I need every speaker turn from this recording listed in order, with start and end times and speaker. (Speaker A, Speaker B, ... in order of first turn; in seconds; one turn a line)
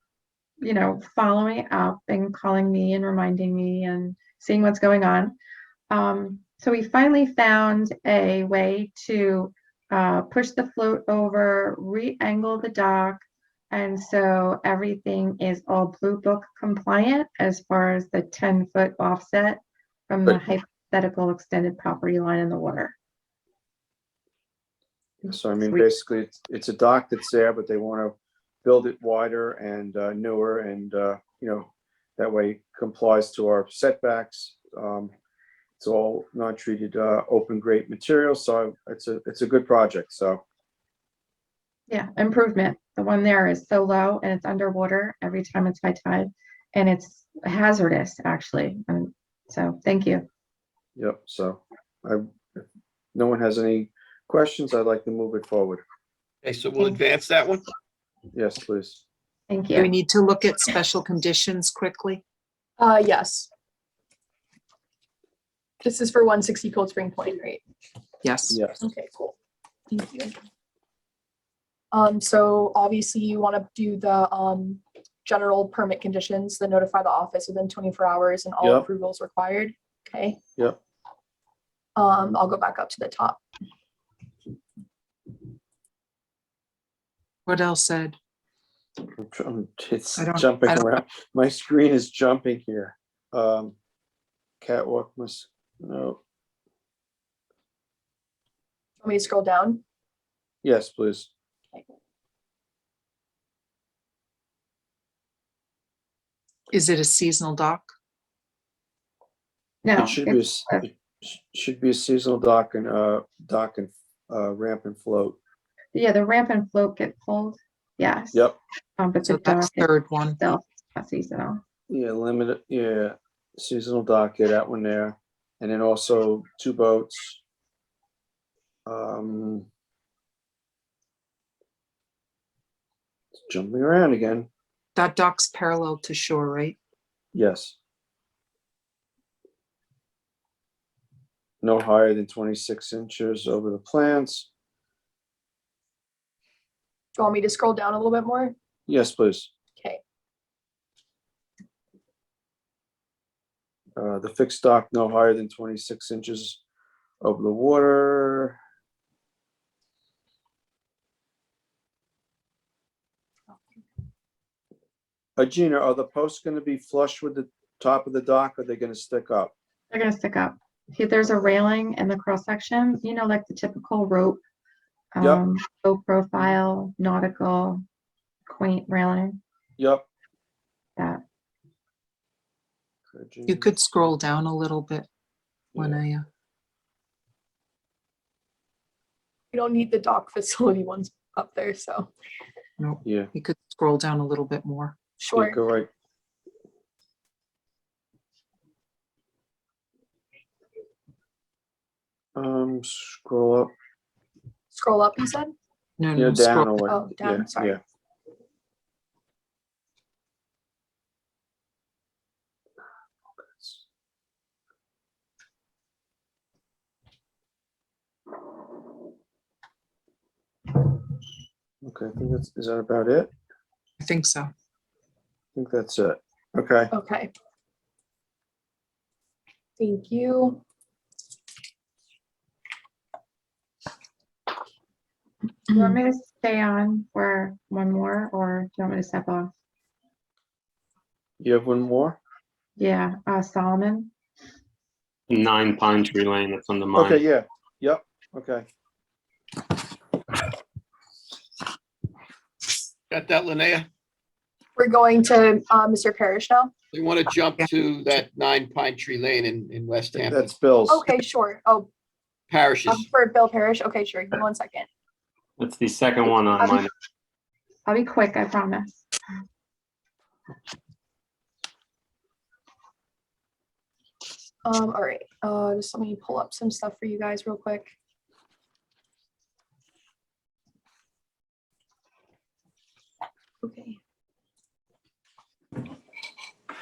Speaker A: 0.6-5.4
Speaker A: 5.9-22.9
Speaker B: 25.2-35.1
Speaker B: 35.8-40.4
Speaker A: 41.9-50.3
Speaker B: 51.0-55.8
Speaker C: 56.4-57.6
Speaker B: 58.3-59.0
Speaker A: 59.5-59.9
Speaker D: 59.7-62.2
Speaker E: 62.8-63.5
Speaker E: 65.8-67.6
Speaker D: 68.2-68.6
Speaker B: 68.5-68.8
Speaker E: 68.8-69.3
Speaker E: 69.9-70.3
Speaker E: 71.9-80.4
Speaker B: 78.6-78.9
Speaker E: 82.0-83.4
Speaker D: 87.5-88.2
Speaker B: 89.1-93.8
Speaker D: 90.2-90.8
Speaker B: 94.6-96.2
Speaker E: 99.0-99.8
Speaker B: 100.6-101.3
Speaker D: 106.7-107.9
Speaker A: 109.8-110.9
Speaker B: 110.0-115.4
Speaker A: 115.9-118.4
Speaker A: 119.0-121.6
Speaker D: 119.2-120.4
Speaker B: 121.9-127.4
Speaker B: 128.9-129.7
Speaker B: 133.5-134.5
Speaker D: 135.0-136.8
Speaker B: 137.3-137.8
Speaker B: 141.6-144.5
Speaker E: 147.2-148.5
Speaker B: 148.9-149.5
Speaker B: 154.0-156.6
Speaker B: 157.2-158.6
Speaker B: 165.4-169.5
Speaker A: 169.9-174.4
Speaker A: 175.1-177.8
Speaker A: 178.5-179.4
Speaker B: 179.8-180.1
Speaker B: 183.1-184.1
Speaker D: 183.5-185.1
Speaker D: 185.7-186.3
Speaker B: 185.8-186.0
Speaker E: 189.5-192.1
Speaker D: 192.8-194.9
Speaker B: 193.1-193.3
Speaker E: 195.2-195.6
Speaker B: 195.3-195.9
Speaker B: 202.3-203.7
Speaker E: 204.7-205.5
Speaker D: 206.0-206.9
Speaker B: 206.2-207.8
Speaker E: 206.9-207.8
Speaker B: 213.5-213.8
Speaker B: 221.8-223.3
Speaker D: 224.0-224.5
Speaker B: 225.6-226.9
Speaker E: 226.9-227.3
Speaker E: 229.8-230.6
Speaker A: 235.7-239.5
Speaker B: 241.4-242.2
Speaker A: 242.8-244.1
Speaker F: 245.3-247.2
Speaker B: 246.9-248.7
Speaker C: 253.1-253.9
Speaker E: 254.8-256.7
Speaker C: 256.9-260.5
Speaker B: 260.2-261.1
Speaker E: 260.9-261.9
Speaker C: 262.5-263.1
Speaker E: 262.9-264.9
Speaker F: 265.6-266.9
Speaker A: 267.9-269.0
Speaker E: 274.6-277.9
Speaker E: 283.6-284.0